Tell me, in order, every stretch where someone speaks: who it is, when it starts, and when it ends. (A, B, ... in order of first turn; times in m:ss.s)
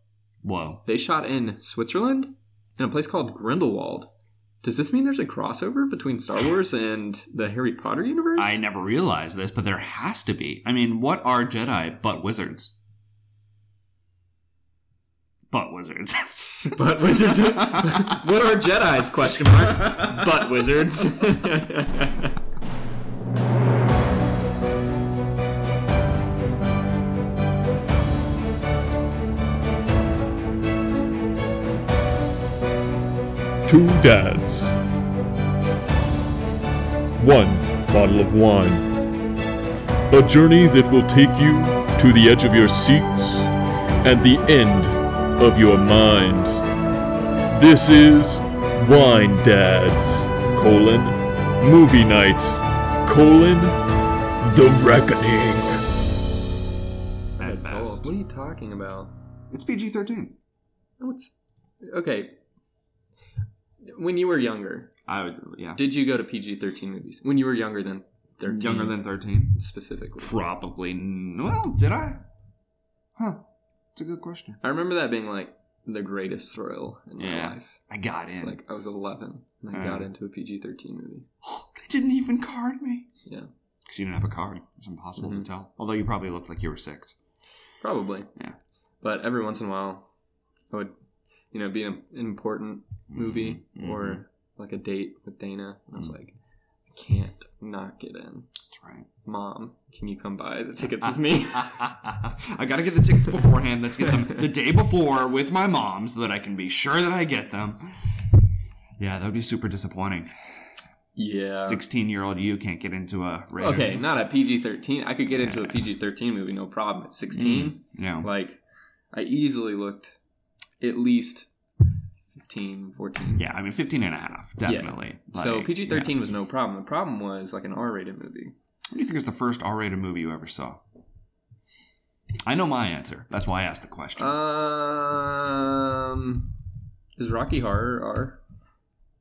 0:00.4-0:00.8 A
0:00.8-0:04.1 B
0:04.6-0:08.6 B
0:08.4-0:12.8 A
0:15.5-0:18.2 A
0:16.6-0:22.3 B
0:19.8-0:20.2 A
0:33.6-0:34.8 C
0:37.2-0:38.9 C
0:40.1-0:43.5 C
0:44.0-0:46.6 C
0:47.5-0:53.8 C
0:54.4-0:55.8 C
0:57.4-0:58.1 A
0:57.4-0:59.1 B
0:59.5-1:00.4 A
1:01.0-1:02.4 B
1:03.9-1:05.0 B
1:05.0-1:05.9 A
1:05.8-1:09.0 B
1:08.4-1:09.6 A
1:09.5-1:10.3 B
1:10.2-1:12.2 A
1:13.2-1:14.6 A
1:14.6-1:17.8 B
1:17.2-1:18.6 A
1:18.4-1:21.3 B
1:19.7-1:20.1 A
1:21.4-1:23.1 A
1:23.8-1:27.2 A
1:25.2-1:25.5 B
1:27.8-1:28.3 B
1:29.0-1:30.1 B
1:31.5-1:36.3 B
1:33.1-1:34.2 A
1:36.9-1:38.5 B
1:38.7-1:39.1 A
1:39.2-1:41.8 B
1:41.0-1:47.8 A
1:49.0-1:50.3 A
1:51.2-1:51.8 B
1:51.5-1:54.1 A
1:53.6-1:58.6 B
1:55.3-1:55.9 A
1:57.3-1:58.3 A
1:59.1-2:00.2 B
2:00.8-2:01.5 B
2:02.4-2:03.4 B
2:03.4-2:06.1 A
2:04.6-2:08.5 B
2:08.9-2:10.8 A
2:12.4-2:14.4 A
2:14.2-2:16.4 B
2:17.2-2:18.4 B